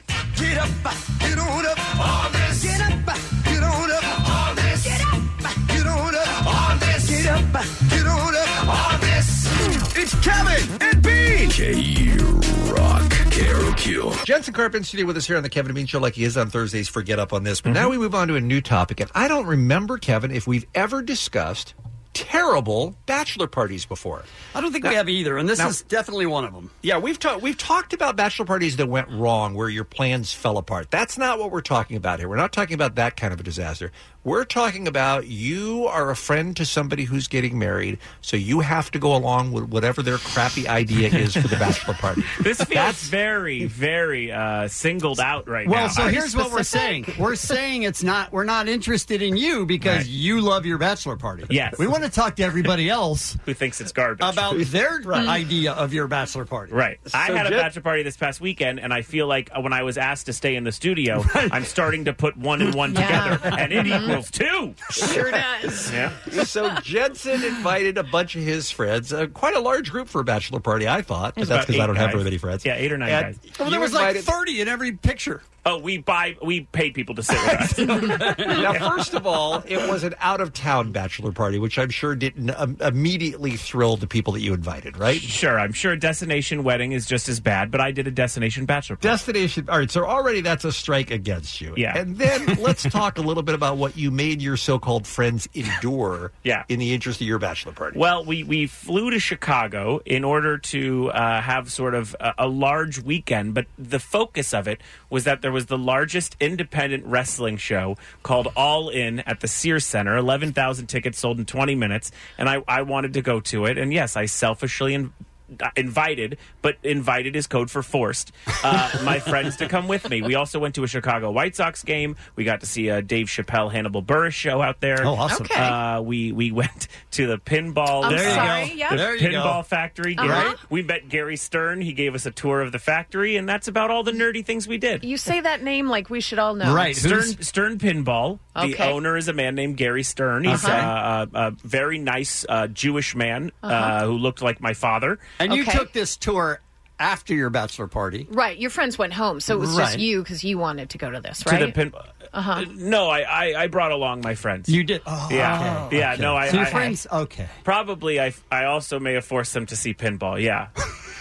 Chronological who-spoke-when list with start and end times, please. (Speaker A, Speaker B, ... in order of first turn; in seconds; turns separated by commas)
Speaker A: 0.3-11.5, Speaker B: 11.5-14.2, Speaker C: 14.2-24.3, Speaker D: 17.6-17.9, Speaker E: 24.5-26.7, Speaker C: 26.8-43.1, Speaker D: 42.4-46.5, Speaker E: 45.6-53.4, Speaker F: 46.1-47.0, Speaker D: 49.8-50.1, Speaker D: 51.5-52.0, Speaker D: 53.5-54.6, Speaker E: 54.2-56.7, Speaker D: 56.7-65.0, Speaker C: 57.0-57.7, Speaker E: 61.2-61.7, Speaker F: 62.9-64.2, Speaker E: 63.5-63.8, Speaker F: 65.0-65.9, Speaker E: 65.0-65.9, Speaker D: 65.9-66.2, Speaker C: 66.3-74.3, Speaker D: 71.4-73.4, Speaker E: 73.6-75.4, Speaker D: 75.6-78.8, Speaker E: 77.9-78.8, Speaker C: 78.4-85.3, Speaker D: 85.1-89.2, Speaker C: 89.0-98.0, Speaker D: 91.8-92.0, Speaker D: 97.9-135.0, Speaker E: 125.0-125.7, Speaker F: 125.3-125.8, Speaker F: 128.0-129.1, Speaker E: 128.0-129.6, Speaker F: 130.2-130.6, Speaker E: 130.2-130.6, Speaker F: 135.0-137.0, Speaker E: 136.6-137.4, Speaker D: 136.9-145.2, Speaker F: 138.5-139.0, Speaker E: 140.4-140.9, Speaker F: 140.5-140.9, Speaker F: 143.6-143.9, Speaker E: 145.4-148.3, Speaker F: 145.5-145.9, Speaker F: 148.3-151.8, Speaker E: 149.5-150.0, Speaker D: 151.4-152.0, Speaker F: 152.3-152.7, Speaker D: 152.5-157.0, Speaker E: 154.7-157.5, Speaker D: 157.6-160.7